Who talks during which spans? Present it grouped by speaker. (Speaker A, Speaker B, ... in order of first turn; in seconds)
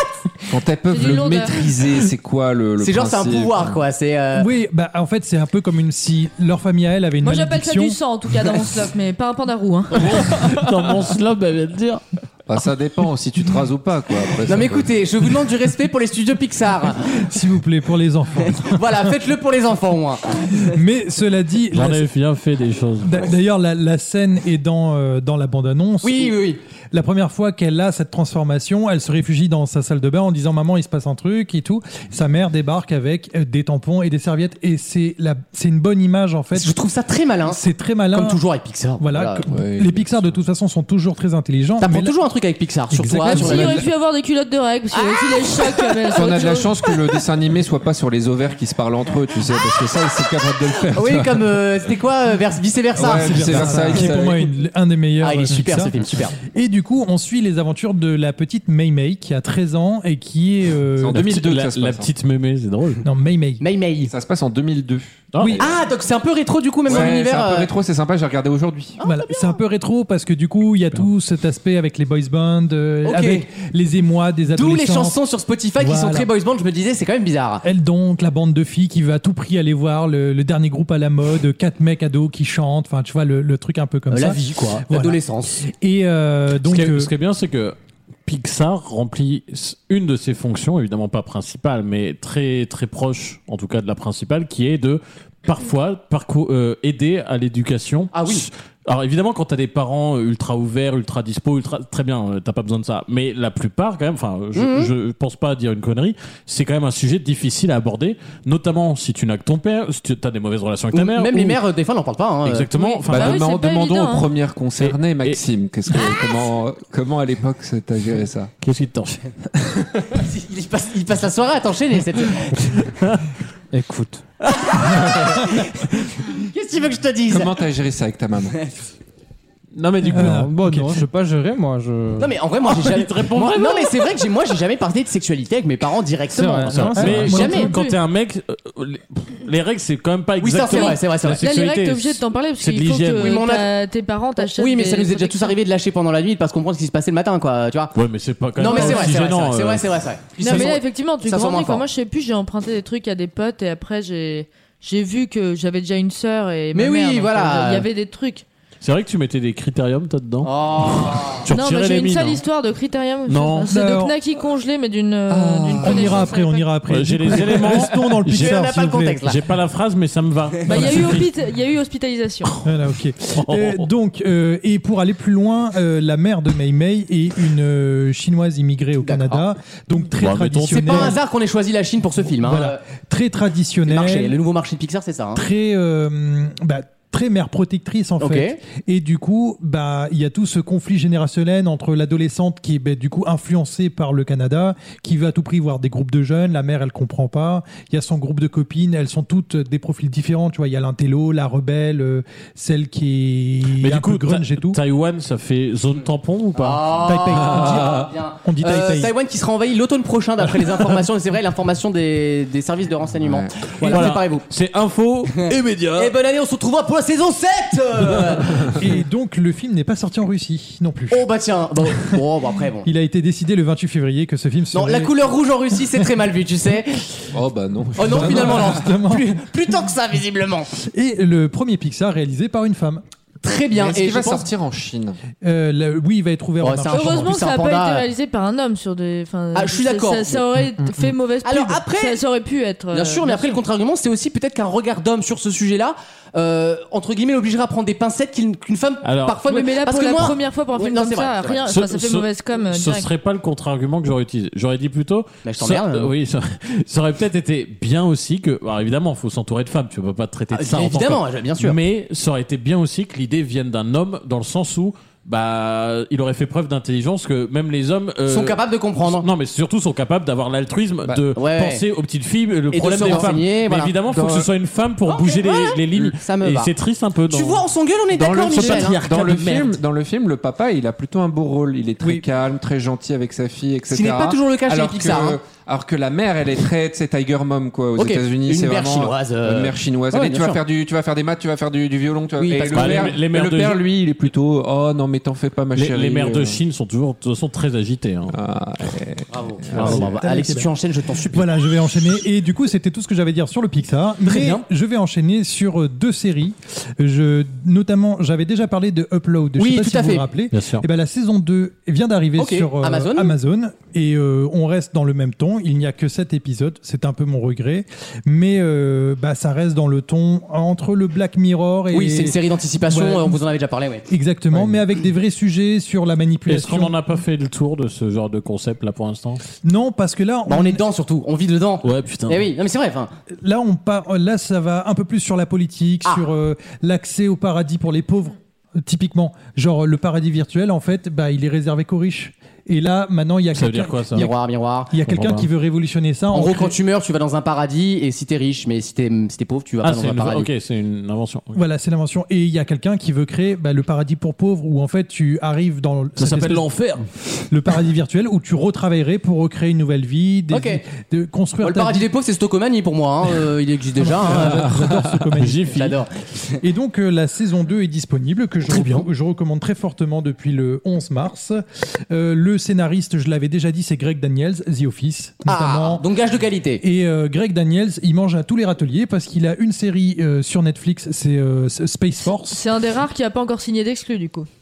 Speaker A: 0.5-3.8, 12.5-14.9, 39.5-40.4, 46.1-51.6, 52.9-54.5, 61.0-62.1, 64.1-65.8, 66.8-69.0, 113.1-118.5, 127.3-128.6, 165.3-166.3, 213.2-213.5, 227.3-228.8, 233.7-235.2, 274.1-274.5, 278.5-296.6, 298.3-300.1, 364.7-365.1
Speaker B: 0.9-1.6, 7.2-10.4, 43.2-46.8, 112.7-114.3, 137.3-138.0, 140.7-145.6, 148.6-149.2, 150.4-158.4, 161.5-166.7, 170.7-172.5, 236.9-243.6, 249.5-253.1, 382.5-384.5
Speaker C: 2.8-4.5, 14.5-17.3, 18.5-20.8, 26.0-26.6, 36.5-37.6, 38.1-39.5, 41.8-43.8, 44.9-46.0, 50.9-53.9, 55.2-56.4, 63.6-64.1, 65.6-67.7, 69.0-69.6, 73.0-73.5, 74.5-77.6, 84.1-85.6, 98.1-98.5, 104.5-104.9, 110.9-112.7, 120.1-122.7, 124.7-127.5, 132.2-137.7, 140.4-141.4, 143.2-143.7, 144.4-147.9, 148.6-151.8, 156.7-157.8, 160.4-161.4, 168.3-169.4, 179.0-179.4, 180.7-182.8, 183.9-185.4, 188.2-188.6, 206.6-214.4, 215.3-218.8, 221.1-222.9, 224.7-227.0, 227.9-230.7, 233.4-234.5, 236.6-238.1, 239.5-240.4, 241.4-242.2, 242.9-251.7, 255.4-256.1, 260.5-261.8, 268.3-269.3, 271.3-271.8, 272.7-273.9, 275.1-276.7, 277.3-279.0, 283.9-285.4, 288.0-290.6, 292.4-293.1, 299.3-301.4, 304.2-304.6, 309.6-310.2, 312.4-313.3, 321.9-324.1, 330.5-333.1, 344.1-344.9, 346.3-350.5, 360.5-360.8, 361.6-364.6, 365.7-366.6, 368.7-369.1, 375.4-376.8
Speaker D: 4.3-8.0, 17.2-18.8, 20.5-22.1, 23.0-26.4, 26.9-36.7, 37.5-38.4, 39.0-42.1, 42.9-43.9, 53.1-61.3, 63.0-63.6, 65.4-65.6, 69.0-75.2, 75.8-76.3, 77.6-87.1, 130.1-131.1, 136.9-137.7, 163.7-164.1, 165.8-169.3, 170.7-171.1, 172.6-181.2, 182.4-184.3, 185.3-204.8, 206.9-209.1, 218.7-221.3, 222.8-225.2, 228.0-229.4, 230.8-233.0, 235.4-237.4, 299.7-322.4, 322.9-323.4, 324.1-326.9, 329.6-330.8, 333.4-344.3, 344.9-346.7, 351.5-356.6, 357.5-362.1, 364.0-365.7, 366.6-376.0, 376.8-382.6
Speaker E: 9.9-12.0, 21.7-23.2, 61.1-63.0, 65.3-65.6, 86.6-111.6, 112.5-113.5, 114.8-115.4, 118.6-119.3, 123.0-123.3, 132.8-134.1, 136.7-143.4, 147.9-149.9, 158.8-162.4, 163.3-163.7, 166.9-168.6, 169.2-171.3, 173.3-173.9, 180.2-181.2, 203.8-206.9, 213.8-216.1, 249.0-249.4, 251.7-279.8, 292.7-293.8, 295.7-298.4, 310.5-310.8, 326.5-329.4, 331.8-332.5, 343.5-344.3, 345.0-345.5, 349.8-351.6, 356.2-357.0, 365.4-366.0
Speaker F: 123.7-124.2, 130.1-132.3, 136.3-137.4